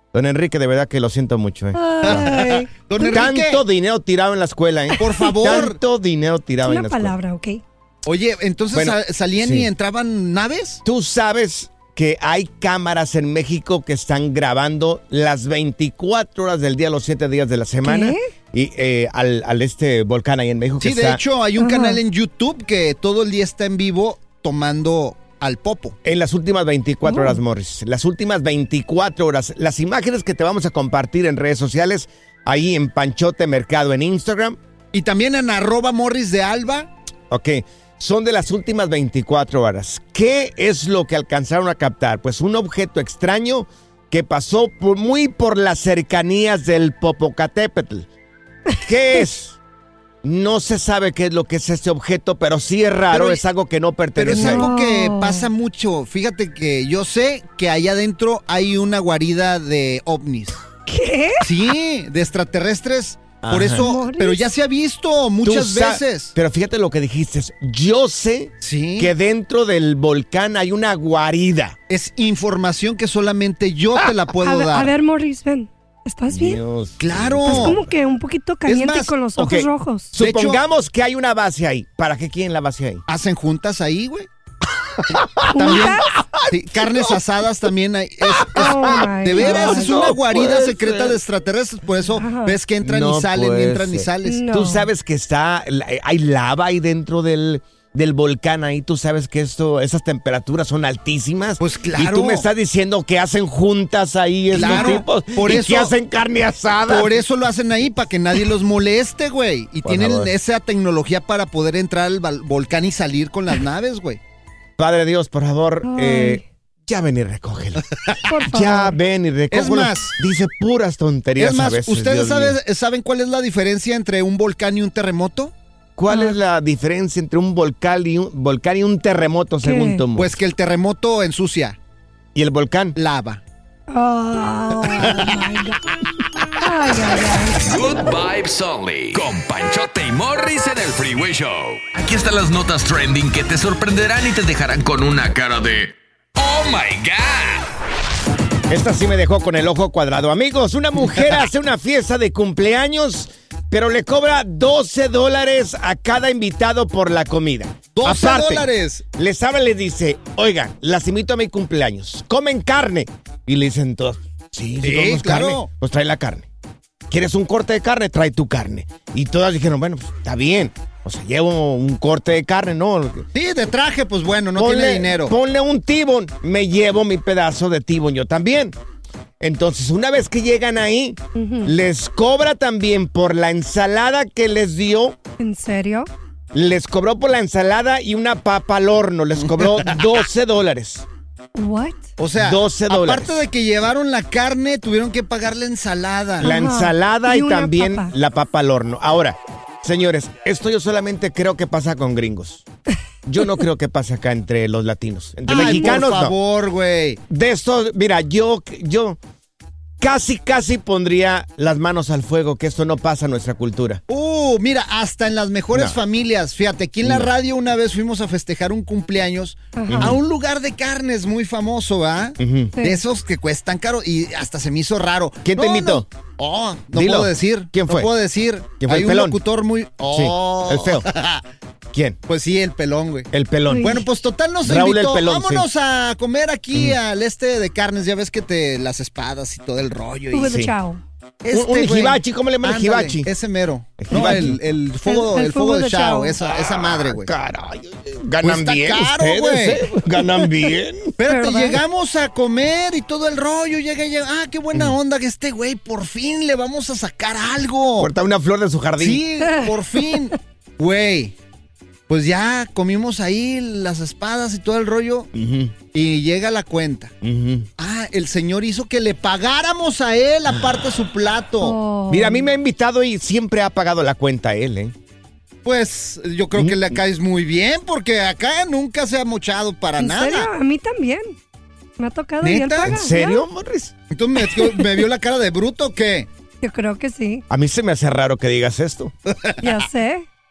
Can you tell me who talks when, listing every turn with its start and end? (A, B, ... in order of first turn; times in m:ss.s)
0:00.1-0:02.3 A
0:01.7-0:03.2 B
0:02.0-0:03.6 C
0:03.0-0:07.2 A
0:05.0-0:05.8 C
0:06.6-0:07.6 B
0:08.0-0:10.8 C
0:08.7-0:09.7 A
0:10.8-0:21.2 A
0:17.8-0:18.2 B
0:20.8-0:26.0 C
0:21.6-0:22.0 B
0:26.0-0:34.6 A
0:27.1-0:27.4 B
0:34.9-0:36.9 C
0:37.3-0:48.1 A
0:48.8-0:49.6 A
0:50.2-0:54.7 A
0:53.1-0:53.4 C
0:54.2-1:00.6 C
0:54.3-0:55.5 B
1:00.9-1:01.5 B
1:01.4-1:06.3 C
1:03.4-1:03.9 A
1:03.8-1:04.5 B
1:05.4-1:11.8 A
1:08.6-1:09.1 C
1:11.9-1:14.9 C
1:14.4-1:16.6 B
1:16.3-1:17.9 A
1:17.0-1:17.8 C
1:17.4-1:20.1 B
1:18.7-1:19.2 C
1:19.4-1:23.0 A
1:20.2-1:20.6 C
1:23.1-1:24.3 C
1:25.1-1:27.2 A
1:25.5-1:26.1 B
1:25.6-1:34.5 C
1:28.2-1:31.2 A
1:28.6-1:30.1 B
1:32.2-1:32.6 B
1:32.8-1:47.2 A
1:34.2-1:34.9 B
1:41.6-1:42.5 C
1:44.5-1:45.9 C
1:44.6-1:44.9 B
1:46.9-1:54.2 C
1:49.8-1:50.3 A
1:54.8-1:57.8 A
1:55.8-1:56.4 B
1:58.3-1:59.0 B
1:58.5-2:02.6 A
1:59.5-2:00.2 C
2:01.4-2:05.5 C
2:06.0-2:10.4 A
2:09.6-2:10.0 B
2:10.2-2:11.8 C
2:12.4-2:13.0 A
2:13.0-2:13.4 C
2:13.9-2:15.8 B
2:15.0-2:15.3 C
2:16.6-2:17.8 B
2:17.6-2:27.7 D
2:28.7-2:46.5 A
2:37.9-2:39.0 C
2:44.8-2:45.7 C
2:47.1-2:53.3 A
2:53.3-2:55.4 C
2:54.6-2:58.8 A
2:59.4-3:05.2 A
3:01.4-3:01.7 B
3:05.4-3:06.1 B
3:06.5-3:11.1 A
3:11.6-3:12.1 B
3:12.2-3:16.5 C
3:12.4-3:13.4 A
3:16.4-3:18.1 B
3:16.4-3:22.6 A
3:23.3-3:26.4 A
3:25.5-3:27.2 C
3:25.5-3:26.0 B
3:27.3-3:29.2 A
3:30.0-3:34.0 A
3:34.1-3:51.4 C
3:35.7-3:36.0 A
3:37.0-3:37.3 A
3:39.8-3:40.2 B
3:39.9-3:40.2 A
3:42.4-3:42.8 A
3:42.8-3:43.0 B
3:45.4-3:46.1 A
3:46.9-3:48.1 A
3:48.8-3:49.4 A
3:50.1-3:51.1 A
3:51.9-3:52.2 A
3:52.3-4:00.6 C
3:53.3-3:54.0 A
3:53.7-3:54.0 B
3:54.6-3:55.7 A
3:56.7-3:57.0 A
4:00.3-4:01.0 B
4:00.4-4:00.7 A
4:01.4-4:07.3 C
4:01.5-4:03.3 A
4:04.0-4:04.6 A
4:05.1-4:06.4 B
4:06.4-4:11.2 A
4:08.4-4:10.0 C
4:11.2-4:18.1 C
4:11.3-4:11.8 B
4:18.0-4:19.2 A
4:19.0-4:21.3 C
4:22.1-4:25.3 C
4:25.3-4:25.7 A
4:25.9-4:27.1 C
4:27.2-4:27.7 A
4:27.8-4:31.8 C
4:30.5-4:30.8 A
4:31.6-4:32.5 B
4:32.1-4:34.9 A
4:35.6-4:40.5 C
4:36.6-4:37.0 A
4:40.0-4:41.4 B
4:42.0-4:43.4 B
4:42.4-4:43.1 C
4:42.9-4:43.9 A
4:44.1-4:46.3 C
4:46.6-4:47.4 B
4:47.5-4:49.1 A
4:49.3-4:49.7 C
4:49.6-4:50.2 B